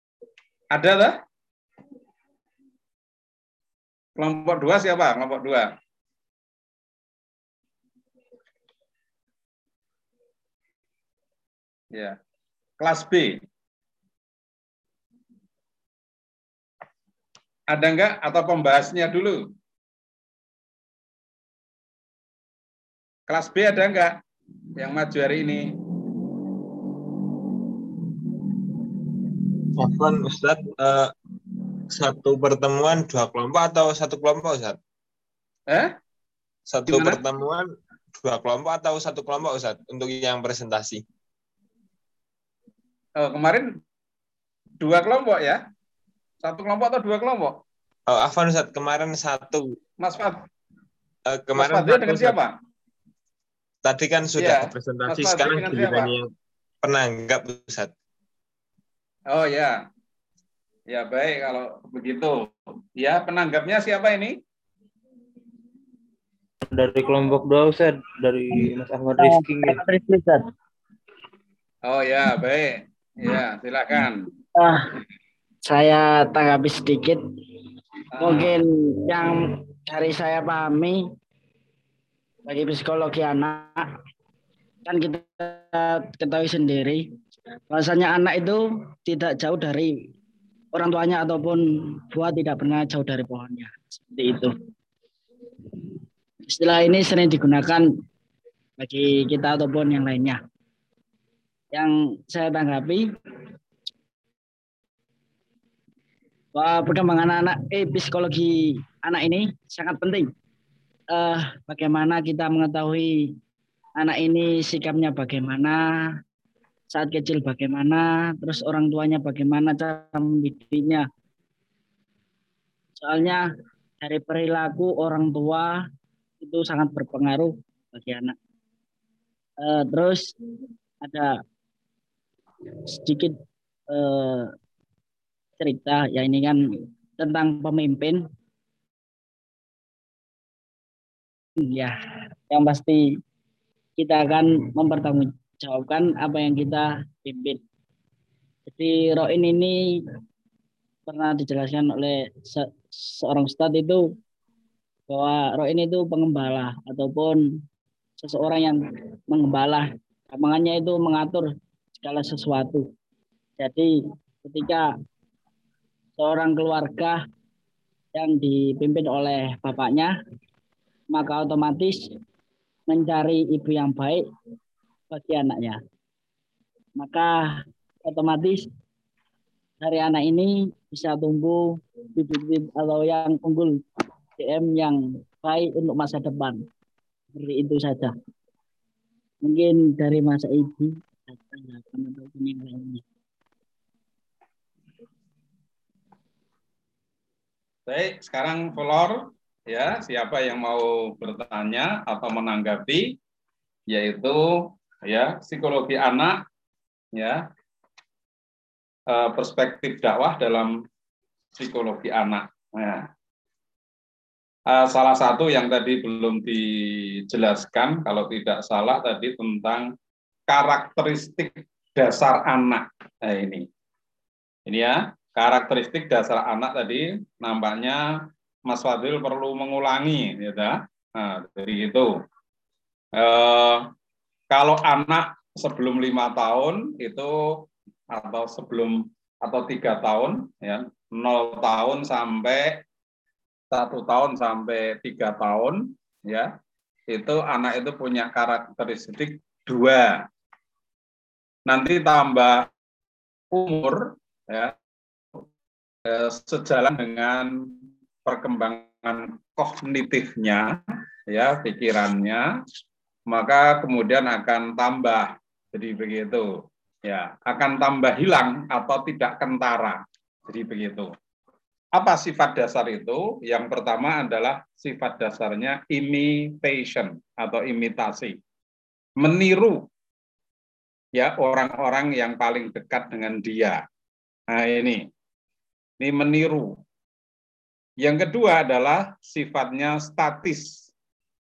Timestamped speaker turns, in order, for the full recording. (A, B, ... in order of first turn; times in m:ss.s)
0:00.7-0:01.2 A
0:04.2-0:05.7 A
0:12.8-0:13.4 A
0:17.7-0:19.5 A
0:23.3-0:24.2 A
0:24.8-0:25.8 A
0:29.8-0:31.1 B
0:31.9-0:34.8 B
0:35.7-0:35.9 A
0:36.7-0:41.0 B
0:36.9-0:37.2 A
0:43.2-0:43.8 A
0:44.8-0:45.6 A
0:46.4-0:47.6 A
0:48.1-0:49.8 B
0:50.0-0:50.4 A
0:51.3-0:52.4 B
0:51.6-0:52.6 A
0:53.8-0:56.3 B
0:54.4-0:56.1 A
0:56.8-0:57.9 B
0:59.3-0:59.8 A
1:00.9-1:04.4 A
1:06.7-1:09.8 C
1:09.2-1:10.4 D
1:11.8-1:14.3 A
1:14.6-1:14.8 D
1:15.6-1:17.2 D
1:18.1-1:18.6 A
1:18.2-1:21.0 D
1:22.4-1:23.8 D
1:24.9-1:27.0 D
1:27.7-1:29.9 D
1:30.7-1:34.5 D
1:36.5-1:37.8 D
1:38.8-1:40.4 D
1:41.7-1:43.1 D
1:46.6-1:50.3 D
1:51.1-1:53.3 D
1:54.0-1:56.1 D
1:56.9-2:01.1 D
2:03.0-2:03.4 D
2:04.0-2:05.8 D
2:06.4-2:08.4 D
2:09.6-2:10.3 D
2:11.0-2:11.4 D
2:12.9-2:13.4 D
2:13.9-2:14.5 D
2:15.6-2:16.6 D
2:17.2-2:18.2 D
2:21.6-2:21.9 D
2:22.5-2:23.1 D
2:24.0-2:27.6 D
2:28.7-2:29.8 D
2:31.1-2:34.0 D
2:35.1-2:37.4 D
2:38.2-2:41.5 D
2:42.0-2:42.8 D
2:43.6-2:43.9 D
2:44.4-2:44.9 D
2:46.2-2:47.2 D
2:48.1-2:50.1 D
2:51.1-2:52.0 D
2:52.9-2:54.2 D
2:55.1-2:55.8 D
2:57.0-2:58.6 D
2:59.8-3:03.8 D
3:04.4-3:06.6 D
3:07.4-3:08.1 D
3:09.4-3:13.0 D
3:17.9-3:23.2 A
3:23.9-3:26.4 A
3:27.1-3:27.4 A
3:29.1-3:30.7 A
3:31.6-3:33.1 A
3:34.7-3:39.9 A
3:40.5-3:43.7 A
3:44.7-3:48.0 A
3:48.7-3:52.1 A
3:53.2-3:53.8 A
3:54.5-4:02.8 A
4:03.7-4:06.5 A
4:07.1-4:10.3 A
4:11.7-4:12.7 A
4:13.5-4:14.7 A
4:16.0-4:20.7 A
4:21.3-4:22.4 A
4:23.3-4:31.1 A
4:31.9-4:38.4 A
4:39.2-4:39.9 A
4:41.2-4:43.8 A
4:44.5-4:45.1 A
4:46.0-4:46.8 A
4:48.0-4:50.8 A